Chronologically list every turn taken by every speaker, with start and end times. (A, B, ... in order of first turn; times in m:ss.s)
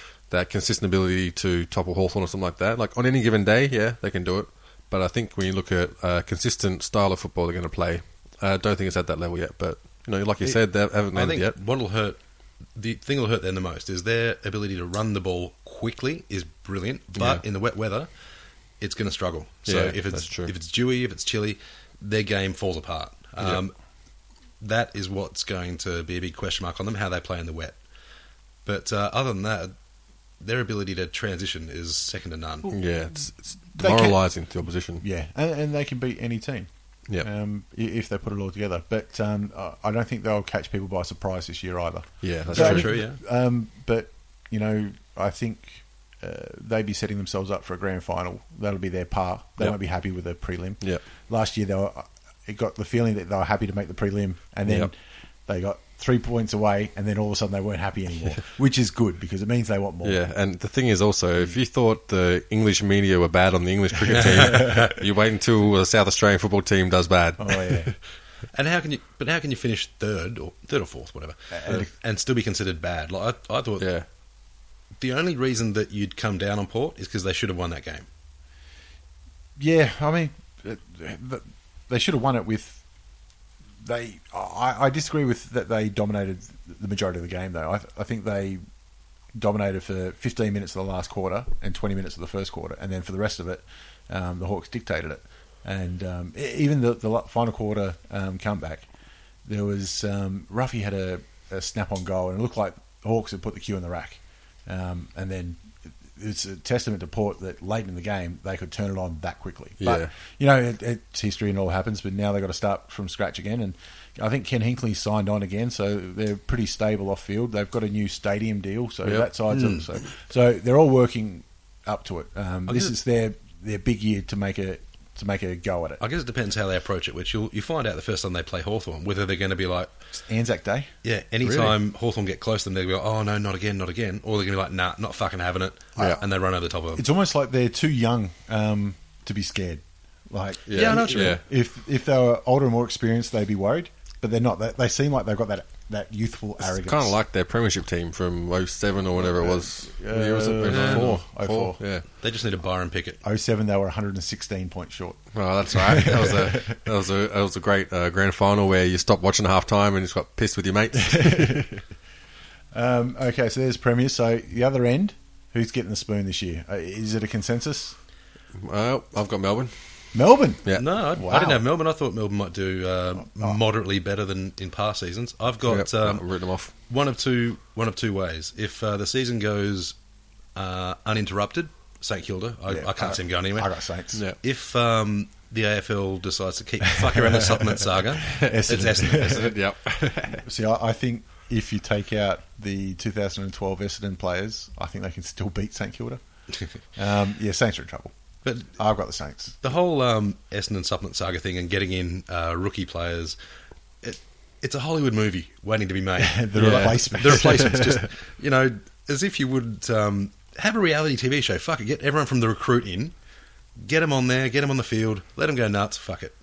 0:00.3-0:11.6 A
0:11.1-0:12.2 B
0:12.8-0:18.1 B
0:17.2-0:17.4 A
0:18.8-0:23.7 B
0:19.7-0:20.5 A
0:24.6-0:27.8 B
0:28.6-0:29.7 B
0:30.4-0:32.7 B
0:32.7-0:35.0 A
0:33.8-0:55.0 C
0:42.2-0:43.0 A
0:42.5-0:43.2 B
0:55.5-1:00.2 C
1:00.0-1:07.9 A
1:04.2-1:04.6 B
1:04.3-1:04.9 C
1:07.4-1:07.9 C
1:08.5-1:13.9 B
1:11.5-1:11.9 C
1:13.8-1:14.1 A
1:15.0-1:18.1 B
1:19.6-1:22.8 C
1:23.8-1:28.6 C
1:29.3-1:38.9 C
1:39.4-2:06.0 C
1:49.8-1:50.1 A
1:59.5-1:59.9 B
2:02.7-2:03.0 B
2:06.0-2:09.9 B
2:10.3-2:11.8 C
2:11.0-2:17.0 B
2:16.9-2:27.2 C
2:20.7-2:21.4 A
2:20.7-2:21.4 B
2:26.6-2:32.0 A
2:29.2-2:31.8 C
2:30.7-2:31.1 B
2:32.2-2:33.2 B
2:33.2-2:36.8 C
2:35.3-2:41.8 A
2:40.9-2:41.8 C
2:42.7-2:48.0 C
2:48.6-2:49.7 A
2:50.1-2:51.6 C
2:50.8-2:56.3 B
2:53.2-2:53.6 C
2:55.7-2:56.7 A
2:56.9-3:00.0 B
3:00.6-3:03.7 B
3:02.7-3:04.2 C
3:04.1-3:04.4 A
3:04.4-3:09.5 B
3:06.9-3:09.6 C
3:09.1-3:10.4 A
3:10.4-3:16.2 C
3:17.0-3:18.1 C
3:18.4-3:18.7 B
3:18.7-3:19.6 C
3:19.6-3:23.4 B
3:24.0-3:33.1 B
3:26.2-3:28.1 C
3:26.6-3:27.8 A
3:33.8-3:36.3 B